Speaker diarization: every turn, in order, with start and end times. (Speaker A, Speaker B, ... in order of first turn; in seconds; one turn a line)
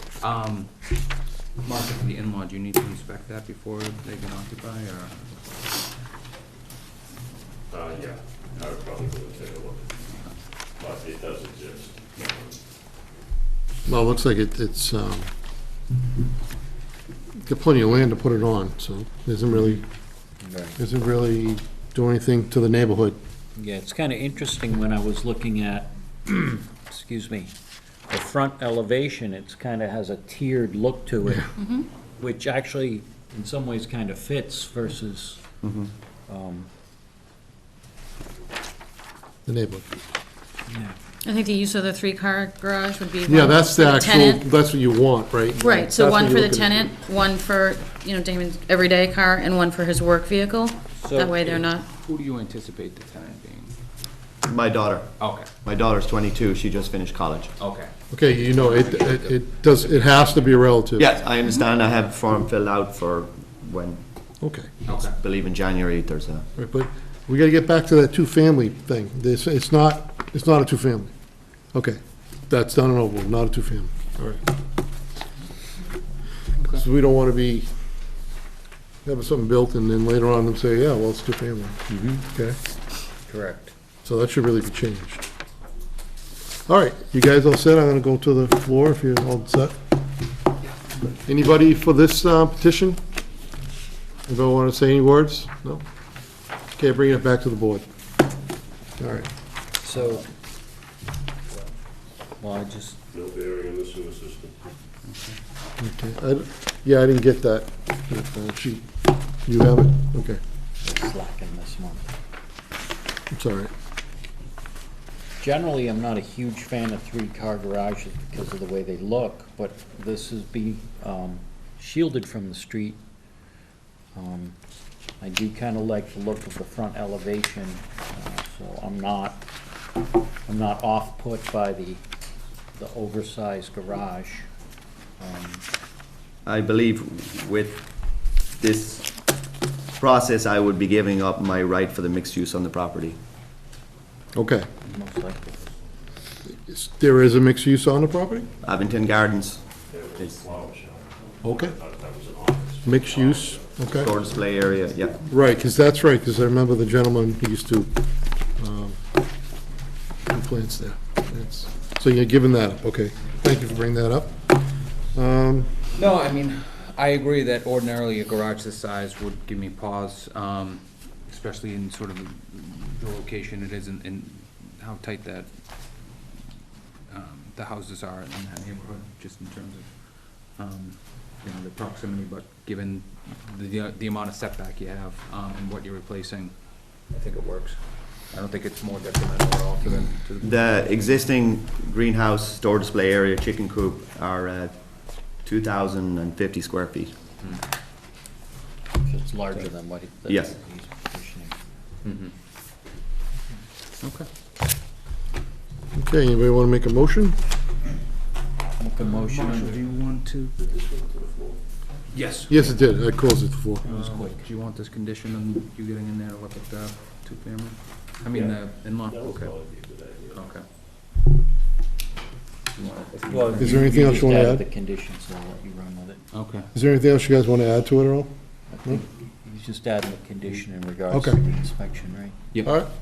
Speaker A: 0.2-0.8
Speaker A: 1.6-5.4
Speaker B: 7.7-10.0
Speaker B: 10.8-12.6
Speaker C: 13.9-15.3
Speaker C: 17.4-19.8
Speaker D: 19.5-19.8
Speaker D: 20.4-20.8
Speaker C: 20.8-23.2
Speaker D: 23.6-27.5
Speaker D: 28.1-31.6
Speaker E: 31.6-31.9
Speaker D: 32.1-35.4
Speaker F: 35.6-35.9
Speaker D: 36.3-36.7
Speaker C: 39.5-39.9
Speaker D: 40.7-41.0
Speaker E: 41.2-44.5
Speaker C: 43.3-46.9
Speaker E: 45.6-51.9
Speaker D: 51.0-51.5
Speaker A: 52.0-53.8
Speaker F: 54.5-57.5
Speaker A: 55.2-55.5
Speaker A: 57.6-60.6
Speaker C: 58.1-61.1
Speaker F: 61.0-64.3
Speaker C: 64.4-64.7
Speaker A: 64.8-65.2
Speaker F: 64.9-66.5
Speaker C: 66.6-71.1
Speaker C: 71.7-74.4
Speaker C: 76.7-77.7
Speaker C: 79.0-82.6
Speaker D: 81.9-82.3
Speaker D: 83.3-83.7
Speaker C: 84.0-85.2
Speaker C: 86.7-89.7
Speaker C: 91.3-93.0
Speaker C: 94.3-95.8
Speaker C: 96.8-97.9
Speaker C: 99.0-99.3
Speaker D: 99.8-100.3
Speaker D: 102.4-103.0
Speaker B: 103.1-104.6
Speaker A: 105.0-105.4
Speaker C: 105.8-108.9
Speaker C: 109.5-110.4
Speaker D: 110.8-112.1
Speaker C: 113.3-113.7
Speaker D: 115.4-123.0
Speaker D: 124.1-124.6
Speaker D: 125.2-129.5
Speaker D: 130.5-132.0
Speaker D: 132.7-134.5
Speaker D: 135.2-135.6
Speaker F: 136.4-139.3
Speaker F: 140.0-143.2
Speaker C: 144.3-144.7
Speaker D: 144.9-145.7
Speaker C: 146.5-148.5
Speaker F: 148.6-149.7
Speaker B: 149.9-154.1
Speaker C: 151.4-151.8
Speaker C: 152.8-154.1
Speaker F: 154.0-155.2
Speaker C: 155.2-157.9
Speaker C: 158.6-159.0
Speaker C: 160.3-164.5
Speaker C: 165.1-165.8
Speaker A: 165.9-176.1
Speaker A: 177.1-190.8
Speaker F: 190.4-197.2
Speaker D: 199.0-201.6
Speaker F: 200.3-200.6
Speaker A: 202.0-202.3
Speaker A: 204.0-204.3
Speaker C: 205.9-207.4
Speaker D: 208.8-209.8
Speaker A: 209.0-210.5
Speaker B: 210.6-211.6
Speaker A: 212.1-212.8
Speaker C: 212.5-213.9
Speaker D: 213.8-214.5
Speaker A: 213.8-219.6
Speaker B: 218.3-220.5
Speaker A: 220.3-220.6
Speaker A: 222.8-224.1
Speaker D: 223.3-226.2
Speaker C: 223.6-224.6
Speaker A: 226.3-226.7
Speaker C: 226.7-228.3
Speaker D: 228.7-232.4
Speaker C: 231.1-231.4